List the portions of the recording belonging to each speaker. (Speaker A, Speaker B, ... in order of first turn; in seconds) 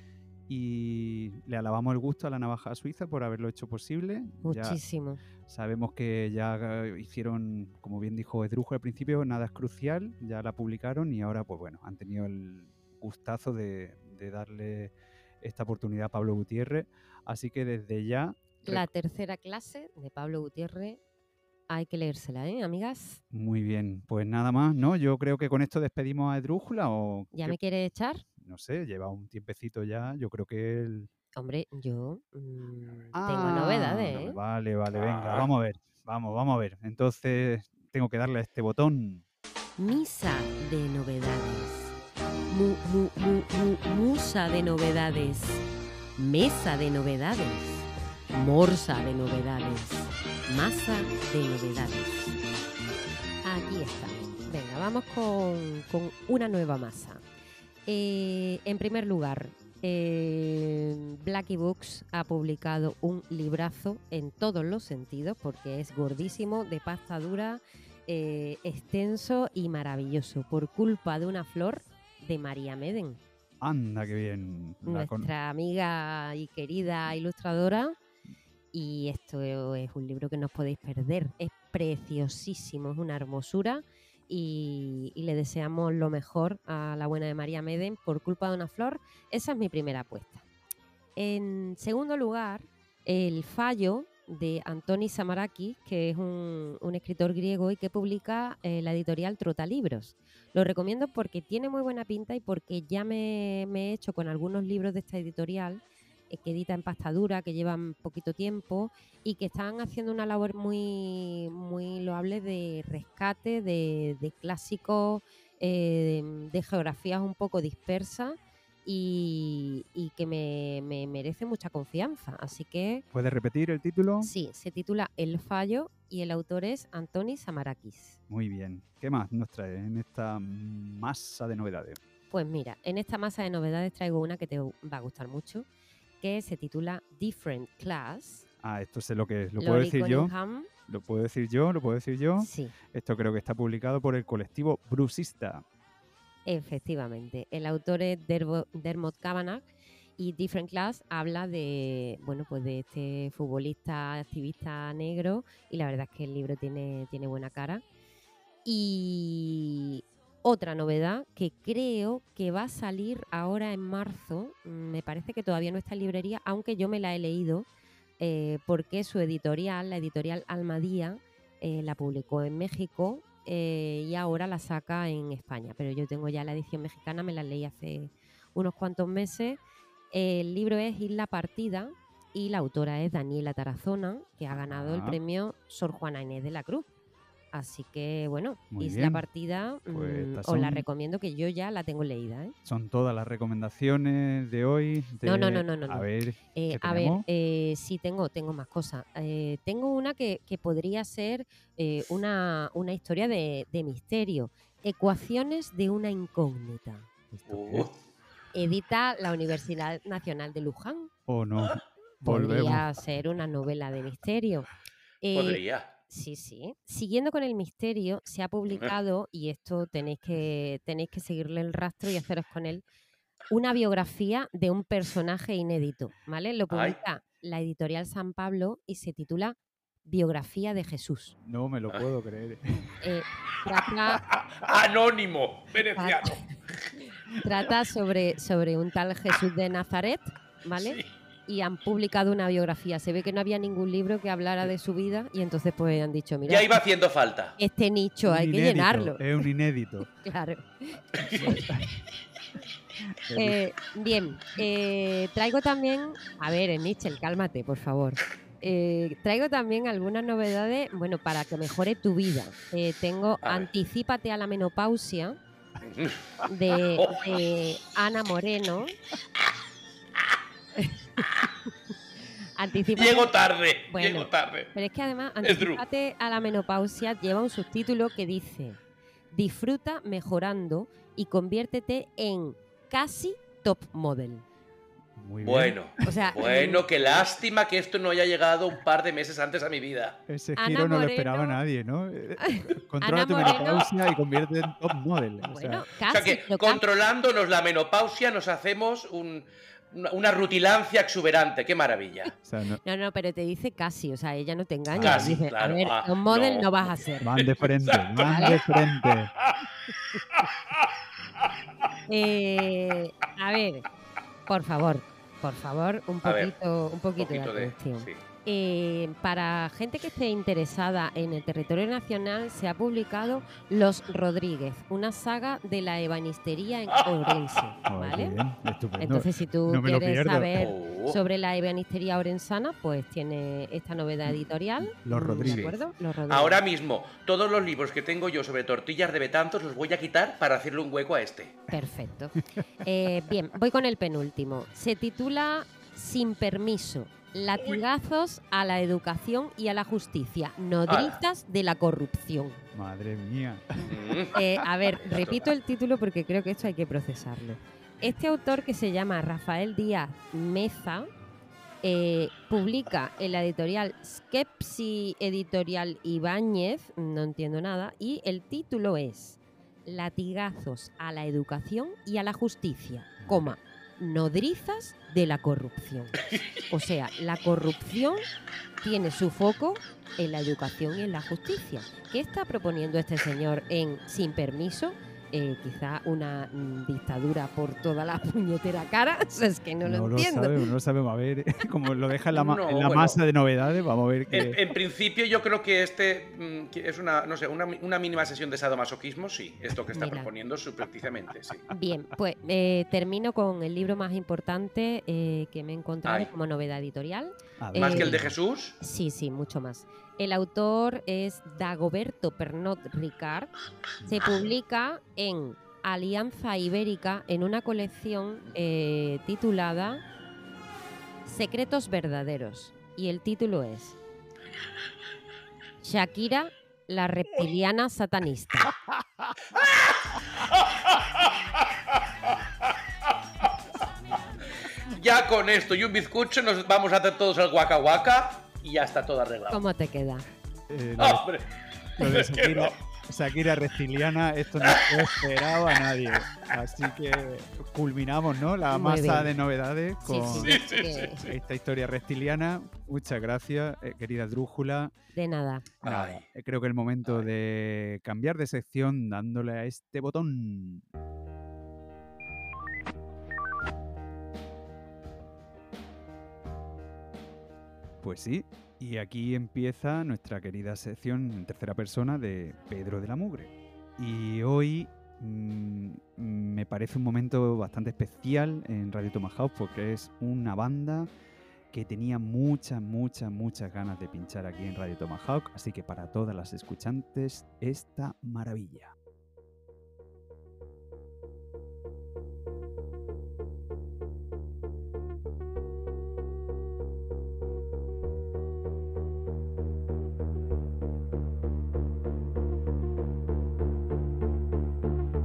Speaker A: 0.5-4.8, 5.5-18.9, 23.3-27.6, 28.4-31.1, 33.1-39.2, 73.6-75.3, 123.1-124.3, 128.3-132.0, 138.6-140.3, 140.9-145.7, 184.5-185.2, 188.7-189.2, 189.9-190.8, 192.6-197.3, 207.3-207.9, 211.3-212.9, 231.4-232.9, 248.2-250.1, 251.6-251.8, 253.2-253.6, 285.2-285.8, 290.3-295.9, 302.4-302.8, 304.9-305.3, 307.2-309.3, 327.9-330.5, 334.8-335.7, 352.7-353.9, 373.2-373.6, 389.8-394.6, 407.6-408.4, 440.7-441.3, 442.0-450.6, 451.2-454.9, 455.8-460.8, 468.0-481.1, 481.7-488.9
Speaker B: 4.4-5.2, 18.6-21.0, 21.7-23.2, 27.3-28.2, 31.4-34.4, 39.8-41.9, 42.5-45.6, 46.2-52.4, 53.4-57.2, 57.9-73.2, 74.8-78.0, 78.7-90.4, 91.2-123.0, 124.2-128.2, 132.3-135.7, 136.2-138.5, 139.6-140.7, 142.4-142.7, 146.5-149.7, 150.2-157.8, 158.7-167.7, 168.2-179.6, 180.1-186.9, 187.5-192.6, 195.2-207.1, 208.5-211.1, 212.2-214.7, 215.2-222.8, 223.5-231.3, 233.0-234.2, 235.9-236.5, 237.4-246.8, 247.6-249.2, 250.2-251.6, 253.3-265.4, 266.5-269.0, 270.8-271.4, 272.6-273.3, 273.9-278.8, 279.3-284.4, 286.0-286.9, 290.6-291.6, 292.4-293.9, 295.4-296.9, 302.8-307.3, 308.2-308.6, 312.1-313.9, 314.5-328.4, 329.0-336.6, 341.7-352.6, 354.3-361.1, 361.8-378.2, 378.8-390.7, 399.9-400.3, 401.7-408.2, 408.8-413.5, 414.0-420.0, 421.2-424.0, 425.8-428.7, 439.5-440.3, 448.7-449.3, 450.0-451.3, 455.1-455.8
Speaker C: 34.9-35.5, 207.5-207.9, 215.3-215.9, 226.7-227.0, 234.6-236.4, 240.8-241.1, 246.5-247.6, 251.2-251.5, 265.8-266.4, 272.9-274.7, 275.4-275.8, 285.4-290.2, 296.1-302.3, 305.0-308.6, 316.2-316.5, 317.2-318.2, 330.6-331.2, 335.5-335.8, 336.3-341.6, 350.9-351.2, 353.8-354.3, 355.0-355.5, 392.3-393.2, 394.3-401.7, 407.8-408.8, 429.6-429.9, 434.9-439.6, 441.0-441.5, 442.0-442.8, 450.4-451.2, 455.8-456.2